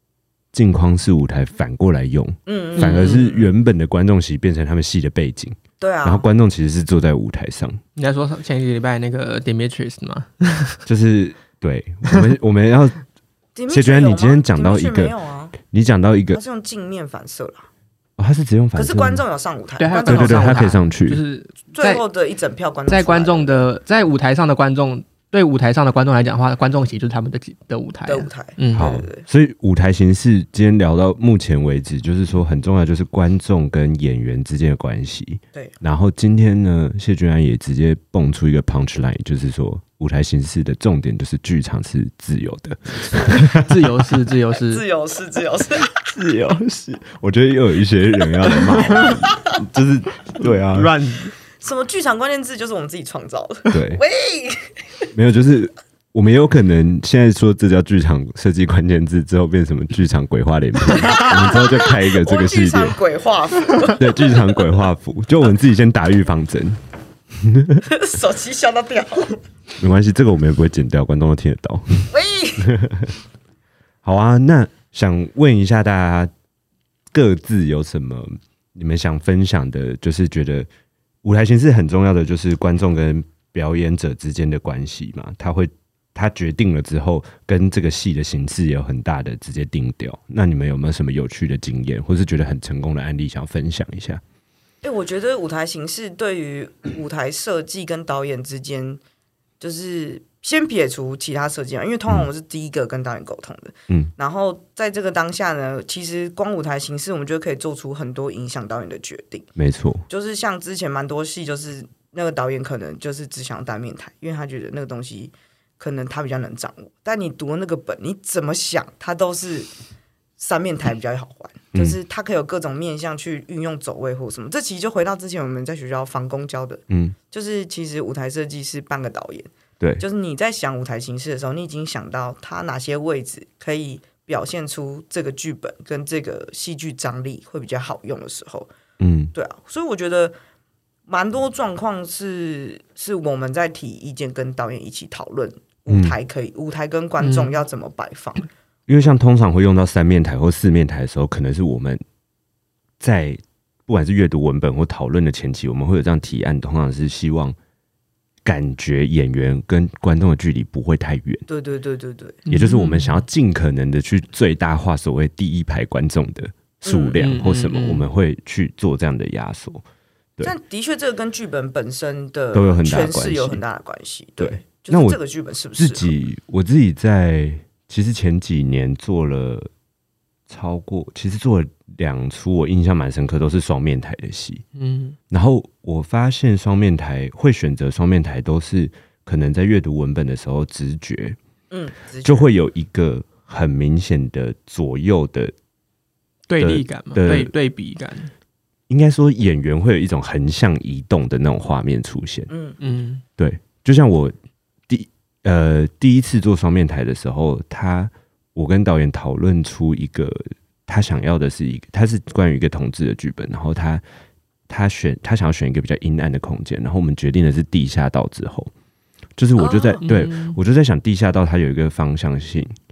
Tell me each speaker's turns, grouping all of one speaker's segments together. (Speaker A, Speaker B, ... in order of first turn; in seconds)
Speaker A: 0.5-7.8, 10.9-13.0, 13.7-16.4, 18.2-19.2, 20.0-21.2, 28.7-43.8, 46.0-51.0, 53.7-54.0, 55.1-63.0, 63.8-66.8, 67.4-67.8, 69.8-72.1, 72.7-73.1, 74.0-76.3, 77.1-80.7, 81.2-94.2, 109.6-110.1, 126.9-127.2, 139.0-139.3, 145.9-146.2, 148.9-152.0, 153.0-157.6, 158.4-161.5, 162.5-169.8, 172.5-173.6, 174.4-175.2, 175.8-179.7, 180.5-184.6, 185.3-191.4, 192.2-195.5, 196.6-197.5, 198.9-202.5, 203.4-204.3, 204.9-214.0, 214.7-218.7, 219.4-222.7
Speaker B: 2.5-3.5, 5.8-6.3, 13.6-15.6, 16.3-17.7, 18.8-20.7, 21.7-23.7, 28.1-29.2, 44.5-45.9, 49.1-49.4, 51.6-54.7, 60.9-64.8, 67.9-69.4, 72.1-72.7, 94.8-99.0, 99.6-109.5, 110.1-119.7, 120.4-138.7, 139.3-140.4, 141.1-148.5, 161.5-162.4, 166.8-167.2, 170.4-176.1, 191.7-192.5, 202.5-202.8, 219.6-220.0
Speaker C: 2.8-3.2, 8.0-10.8, 19.8-22.0, 22.9-28.9, 43.3-44.8, 48.6-49.2, 50.4-51.3, 147.2-147.6, 162.4-163.2, 167.2-168.1, 184.8-185.2, 196.5-198.3, 202.8-203.2, 220.0-220.6